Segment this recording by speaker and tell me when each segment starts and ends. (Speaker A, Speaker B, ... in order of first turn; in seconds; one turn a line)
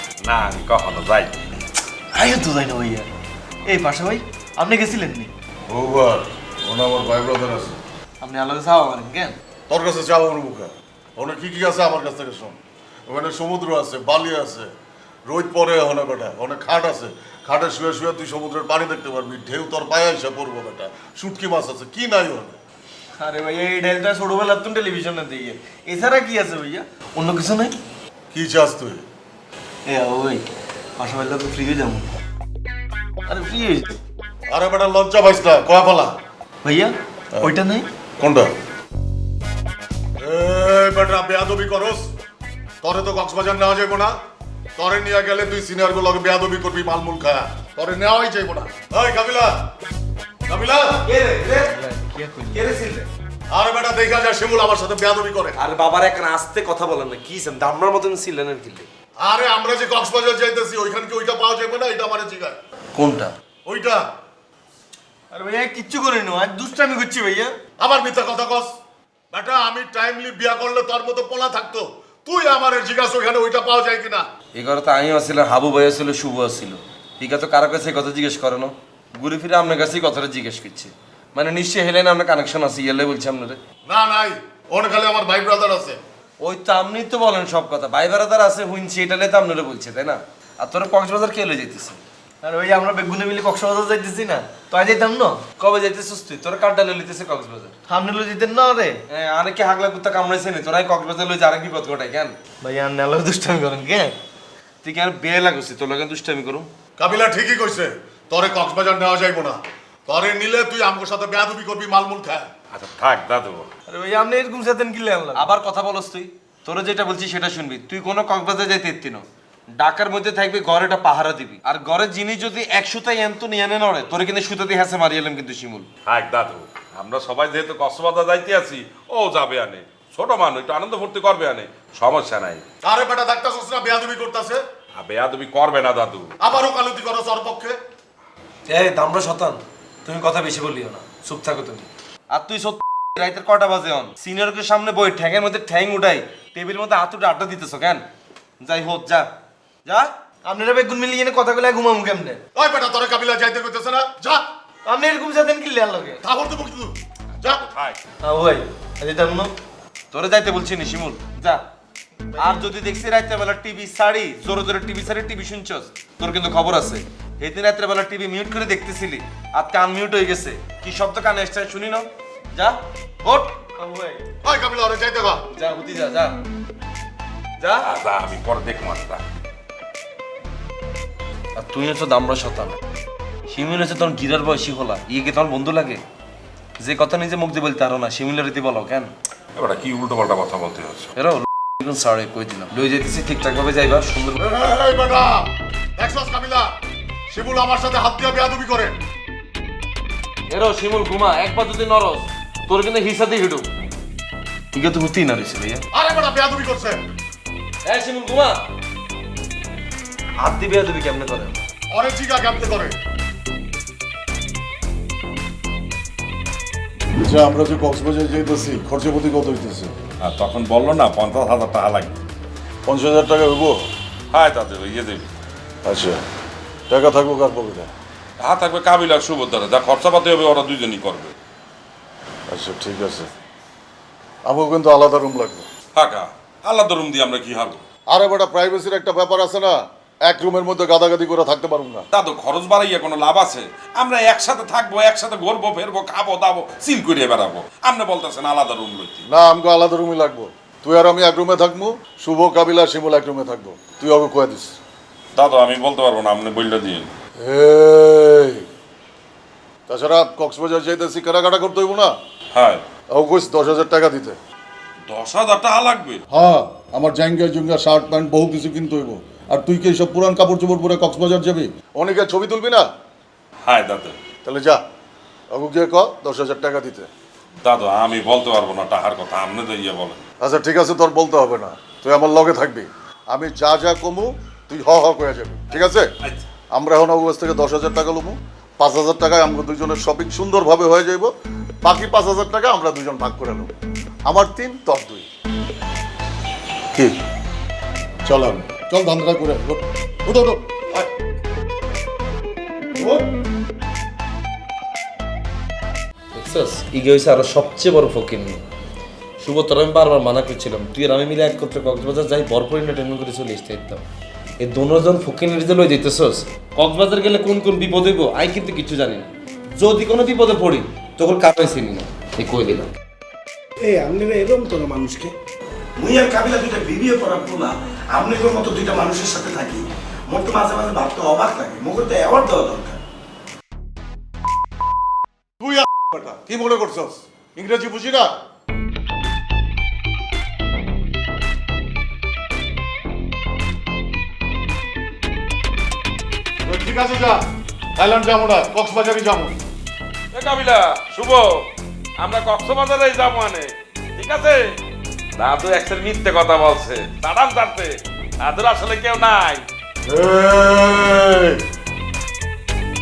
Speaker A: 0.2-1.4
Speaker B: 2.1-3.1
Speaker B: 3.7-5.3
Speaker C: 5.7-7.8
Speaker B: 8.2-9.4
Speaker C: 9.7-14.7
Speaker C: 15.3-22.6
Speaker B: 23.2-27.7
Speaker C: 28.3-29.0
Speaker B: 29.9-30.4
Speaker B: 31.0-32.1
Speaker B: 33.3-34.0
Speaker C: 34.5-36.1
Speaker B: 36.6-37.9
Speaker C: 38.2-38.5
Speaker C: 40.2-42.1
Speaker C: 42.8-44.1
Speaker C: 44.8-49.5
Speaker C: 50.5-51.0
Speaker D: 51.1-51.7
Speaker B: 51.8-52.6
Speaker D: 52.5-53.1
Speaker C: 53.5-55.6
Speaker D: 55.6-58.9
Speaker C: 59.2-62.6
Speaker D: 63.0-63.3
Speaker C: 63.6-64.0
Speaker B: 65.3-67.5
Speaker C: 67.8-68.7
Speaker C: 69.3-74.2
Speaker D: 74.5-83.6
Speaker C: 83.9-86.0
Speaker D: 86.4-92.0
Speaker B: 92.4-95.5
Speaker D: 95.5-97.7
Speaker B: 97.9-99.0
Speaker D: 99.1-102.4
Speaker B: 102.6-104.2
Speaker D: 104.8-106.7
Speaker C: 107.0-112.5
Speaker A: 112.7-113.7
Speaker B: 113.9-115.5
Speaker D: 115.3-119.2
Speaker D: 119.8-125.9
Speaker A: 126.1-132.6
Speaker C: 132.8-134.6
Speaker A: 135.0-136.3
Speaker C: 136.4-137.8
Speaker D: 138.7-148.0
Speaker D: 148.6-149.3
Speaker B: 150.5-152.4
Speaker C: 152.6-154.4
Speaker B: 154.9-156.2
Speaker C: 156.2-157.6
Speaker A: 157.4-158.0
Speaker B: 158.2-159.5
Speaker D: 160.1-161.6
Speaker D: 162.4-173.7
Speaker B: 173.8-174.1
Speaker C: 174.4-175.4
Speaker D: 175.5-176.4
Speaker D: 177.6-177.9
Speaker A: 177.8-179.2
Speaker D: 181.6-182.8
Speaker D: 183.5-186.0
Speaker D: 186.8-189.1
Speaker A: 189.6-191.1
Speaker D: 191.2-194.4
Speaker C: 194.4-196.7
Speaker C: 197.3-199.0
Speaker D: 200.5-203.7
Speaker D: 204.7-205.8
Speaker C: 205.9-207.0
Speaker D: 207.8-208.6
Speaker D: 210.4-211.5
Speaker C: 211.9-212.9
Speaker C: 217.2-219.9
Speaker A: 220.2-222.2
Speaker C: 222.9-223.9
Speaker A: 224.3-225.3
Speaker C: 225.8-226.2
Speaker C: 226.9-227.9
Speaker A: 228.4-231.3
Speaker C: 232.5-233.3
Speaker C: 234.4-235.7
Speaker A: 235.9-237.8
Speaker C: 238.1-242.1
Speaker A: 242.1-249.2
Speaker C: 249.3-254.8
Speaker A: 255.3-257.1
Speaker C: 257.4-258.6
Speaker C: 259.9-262.1
Speaker A: 262.5-262.8
Speaker C: 263.1-264.4
Speaker A: 265.1-266.2
Speaker C: 266.3-272.9
Speaker A: 273.6-274.2
Speaker C: 274.4-274.8
Speaker C: 275.5-277.1
Speaker A: 277.6-280.2
Speaker C: 280.4-286.1
Speaker C: 286.7-291.3
Speaker C: 291.8-293.7
Speaker C: 294.3-295.3
Speaker C: 298.2-301.1
Speaker C: 303.0-303.2
Speaker D: 306.3-308.6
Speaker D: 309.4-314.1
Speaker D: 314.6-322.9
Speaker E: 323.8-325.4
Speaker E: 326.0-333.0
Speaker C: 335.6-338.3
Speaker C: 346.6-347.4
Speaker C: 348.0-349.6
Speaker A: 350.3-354.8
Speaker A: 355.4-359.7
Speaker C: 360.1-361.6